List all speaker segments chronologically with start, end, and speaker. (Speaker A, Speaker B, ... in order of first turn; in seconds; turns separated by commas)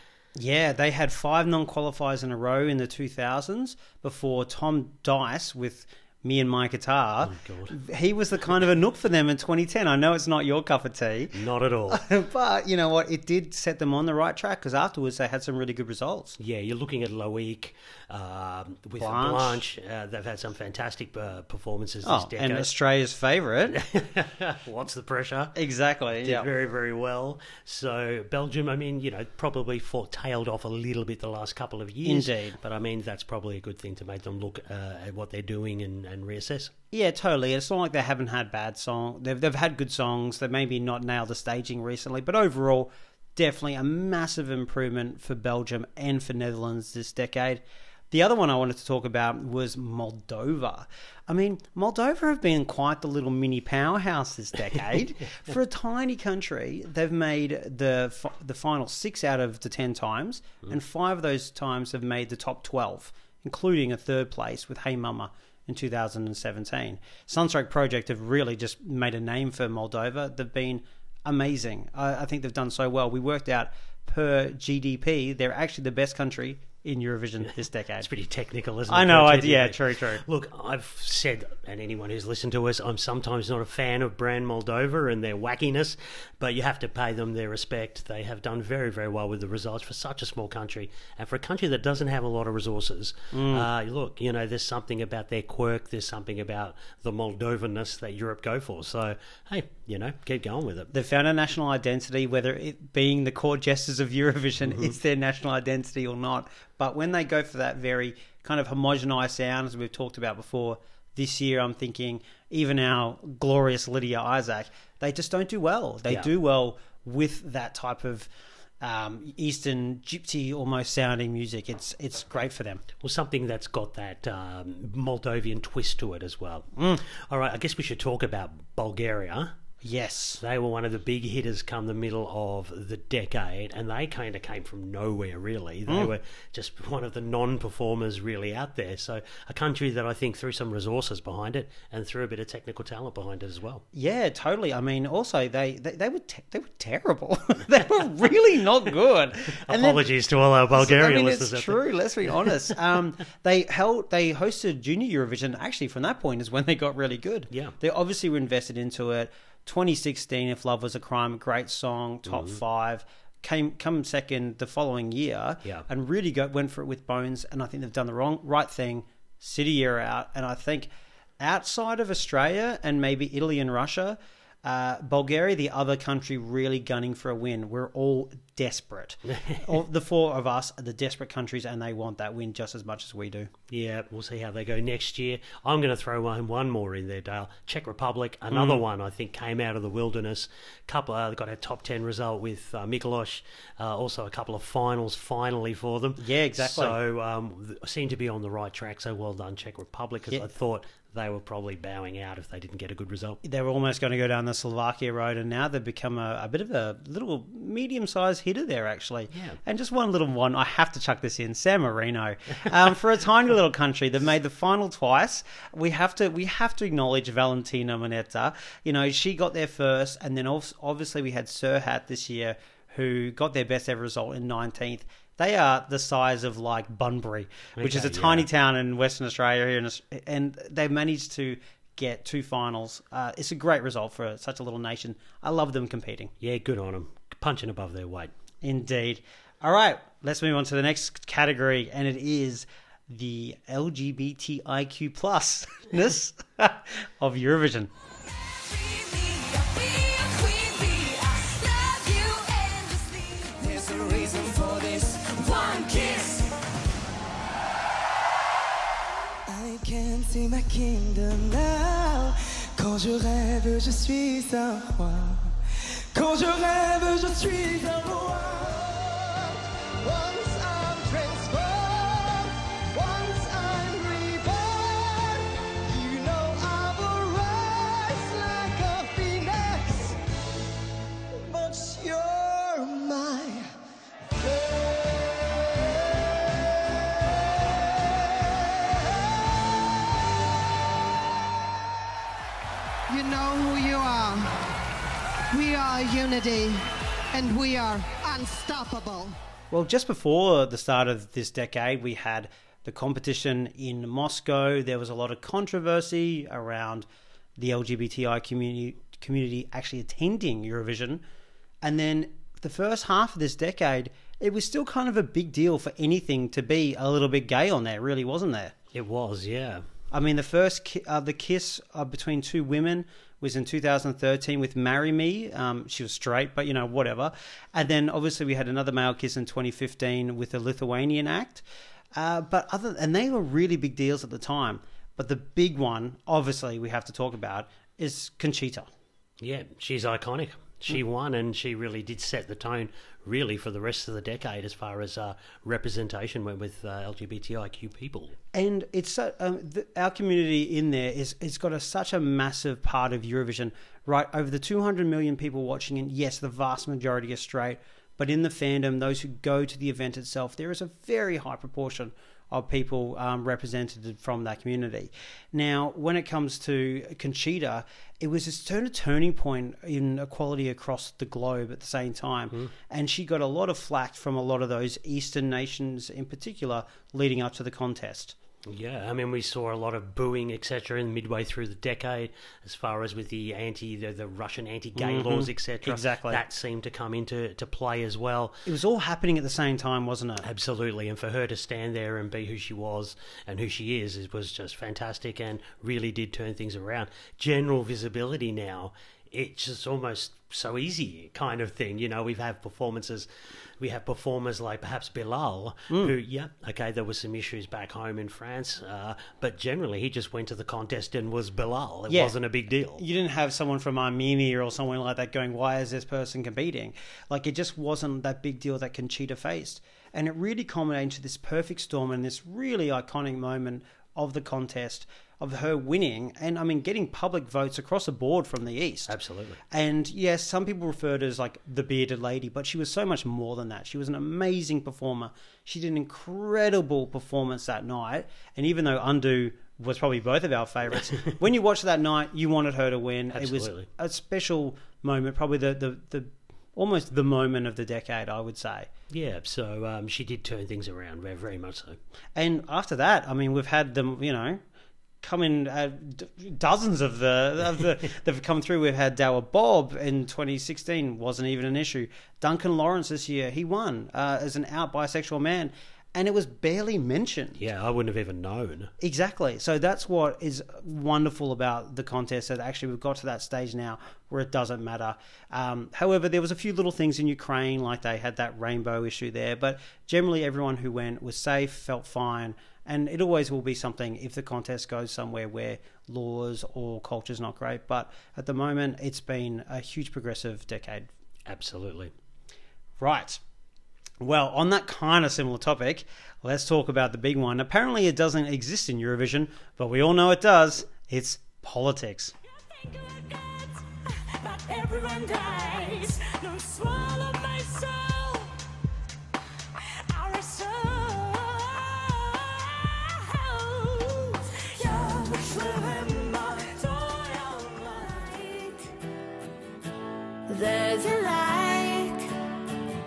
Speaker A: 0.3-11.3, Speaker B: 7.2-7.7, Speaker B: 11.3-12.0, Speaker A: 11.9-16.4, Speaker B: 16.4-22.7, Speaker A: 19.0-19.6, Speaker A: 22.0-23.8, Speaker B: 23.7-25.6, Speaker A: 25.6-26.5, Speaker B: 26.2-36.7, Speaker A: 32.0-32.6, Speaker A: 36.9-78.1, Speaker B: 78.0-100.9, Speaker A: 78.9-80.2, Speaker A: 93.3-93.7, Speaker A: 100.9-118.3, Speaker B: 104.6-104.9, Speaker A: 118.8-122.8, Speaker B: 123.0-129.5, Speaker A: 126.8-127.0, Speaker A: 129.8-130.4, Speaker B: 130.4-143.8, Speaker A: 143.9-150.0, Speaker B: 149.6-152.6, Speaker A: 150.7-183.5, Speaker B: 157.5-157.8, Speaker B: 162.3-162.6, Speaker B: 179.3-179.6, Speaker B: 183.7-203.4, Speaker A: 188.5-188.8, Speaker A: 196.2-197.0, Speaker A: 203.4-236.3, Speaker B: 209.3-209.6, Speaker B: 227.8-228.5, Speaker B: 236.4-238.3, Speaker A: 238.6-247.9, Speaker C: 248.6-253.8, Speaker D: 253.6-255.7, Speaker C: 255.5-256.4, Speaker D: 259.5-265.4, Speaker D: 266.1-280.2, Speaker D: 281.4-283.7, Speaker D: 284.4-286.0, Speaker D: 288.0-288.9, Speaker E: 293.1-294.6, Speaker E: 295.5-299.4, Speaker A: 299.7-307.1, Speaker A: 307.6-311.2, Speaker A: 311.8-318.7, Speaker B: 318.9-319.9, Speaker A: 320.1-331.6, Speaker A: 332.1-338.9, Speaker B: 339.4-348.4, Speaker A: 348.5-378.3, Speaker B: 378.6-388.6, Speaker A: 384.9-386.4, Speaker A: 388.6-390.4, Speaker B: 390.4-413.0, Speaker A: 405.9-406.1, Speaker A: 412.1-412.4, Speaker A: 412.9-429.1, Speaker B: 429.1-429.6, Speaker A: 429.7-448.9, Speaker B: 443.3-443.9, Speaker B: 449.1-452.0, Speaker A: 452.4-454.6, Speaker A: 455.2-467.6, Speaker B: 467.6-468.9, Speaker A: 469.0-491.1, Speaker B: 491.5-492.1, Speaker A: 493.0-493.4, Speaker A: 494.2-502.3, Speaker C: 502.5-508.5, Speaker C: 510.1-518.9, Speaker C: 520.5-522.3